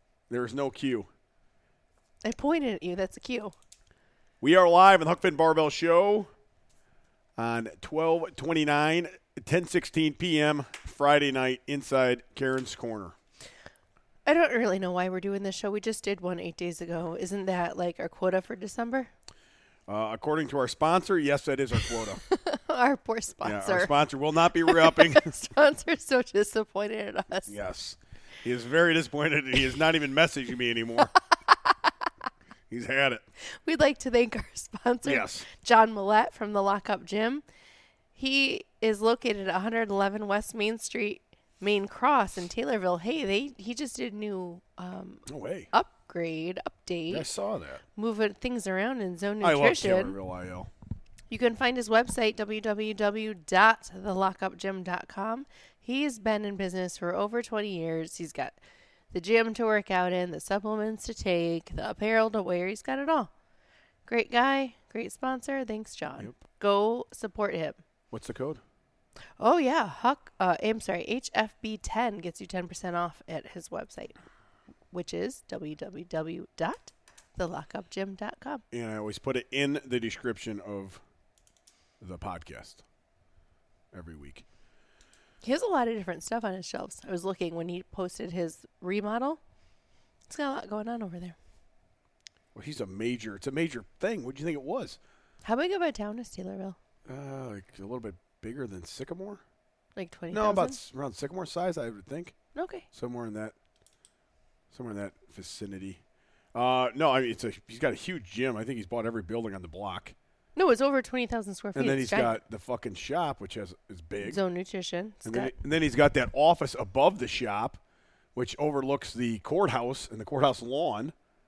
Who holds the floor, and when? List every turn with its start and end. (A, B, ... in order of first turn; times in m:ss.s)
0:00.3-0:01.1 A
0:02.2-0:03.5 B
0:04.4-0:06.3 A
0:07.4-0:13.2 A
0:14.2-0:19.1 B
0:19.9-0:22.2 A
0:21.9-0:23.9 B
0:23.4-0:25.4 A
0:24.5-0:27.5 B
0:27.4-0:31.1 A
0:32.7-0:33.2 A
0:33.4-0:37.4 B
0:35.0-0:35.5 A
0:38.2-0:47.3 B
0:45.2-0:45.7 A
0:47.1-0:47.8 A
0:47.9-0:50.2 B
0:49.4-0:50.7 A
0:51.3-0:58.6 B
0:59.1-1:03.3 B
1:04.0-1:07.8 B
1:08.1-1:08.6 A
1:09.4-1:14.1 B
1:14.9-1:18.6 B
1:18.7-1:21.0 A
1:22.0-1:22.8 A
1:23.9-1:24.4 A
1:25.4-1:29.4 B
1:30.3-1:31.4 B
1:32.5-1:35.0 A
1:35.4-1:36.8 B
1:37.1-1:39.4 A
1:40.0-1:40.8 B
1:40.3-1:42.4 A
1:42.5-1:42.8 B
1:42.9-1:43.5 A
1:44.7-1:46.0 A
1:46.5-1:50.1 A
1:50.6-1:52.4 B
1:51.7-1:54.4 A
1:54.2-1:55.5 B
1:55.2-1:57.8 A
1:58.3-2:01.1 A